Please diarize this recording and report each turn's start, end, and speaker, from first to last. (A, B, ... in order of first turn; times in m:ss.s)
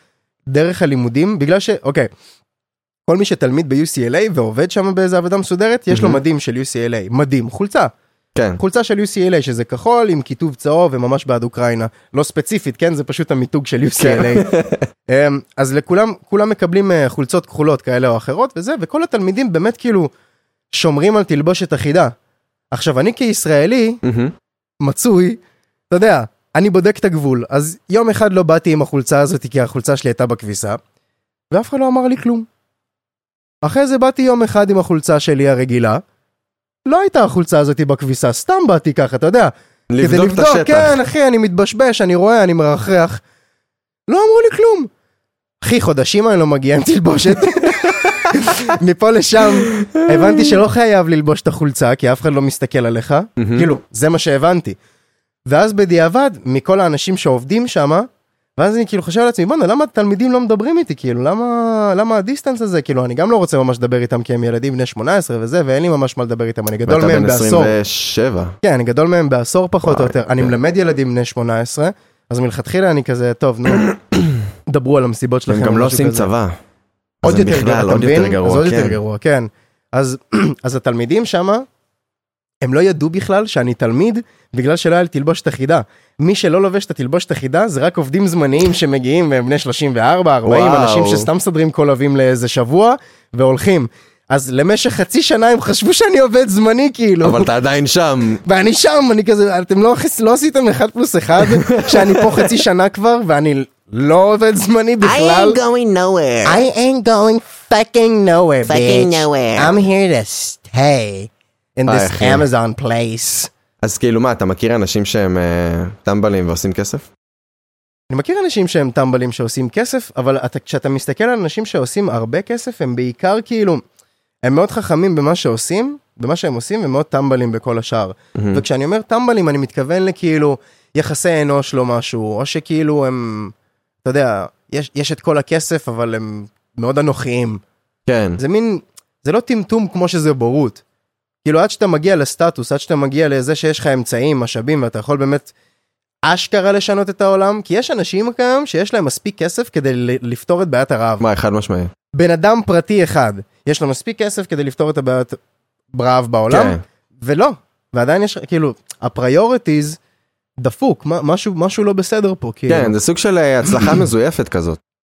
0:00.5-0:02.1 A
0:03.1-0:07.9 A
0:05.9-0:06.2 B
0:08.3-0:08.6 B
0:08.6-0:14.5 A
0:14.0-0:14.8 B
0:15.1-0:20.1 A
0:20.7-0:22.1 A
0:22.7-0:24.0 A
0:24.0-0:24.3 B
0:24.8-0:30.8 A
0:31.5-0:32.5 A
0:33.6-0:36.0 A
0:36.8-0:43.2 A
0:39.9-0:41.0 B
0:44.1-0:44.9 A
0:45.6-0:54.8 A
0:49.7-0:50.6 B
0:53.4-0:53.7 B
0:55.5-1:07.7 A
1:06.8-1:08.6 B
1:08.6-1:13.9 A
1:09.8-1:10.5 B
1:13.8-1:14.3 B
1:14.7-1:16.3 A
1:15.5-1:16.6 B
1:17.2-1:19.0 B
1:17.2-1:21.6 A
1:22.6-1:37.5 A
1:30.4-1:31.3 B
1:37.2-1:38.4 B
1:38.4-1:45.6 A
1:41.4-1:42.5 B
1:45.0-1:46.6 C
1:46.4-1:53.5 A
1:48.7-1:49.7 C
1:51.9-1:52.5 B
1:53.8-1:57.1 B
1:58.1-2:03.8 A
2:04.4-2:17.6 A
2:08.3-2:08.6 B
2:18.0-2:18.4 B
2:18.4-2:20.8 A
2:21.4-2:25.5 A
2:26.2-2:31.2 A
2:31.2-2:31.9 B
2:32.1-2:35.4 A
2:35.9-2:40.0 A
2:36.5-2:36.8 B
2:40.6-2:43.0 A
2:42.7-2:44.8 B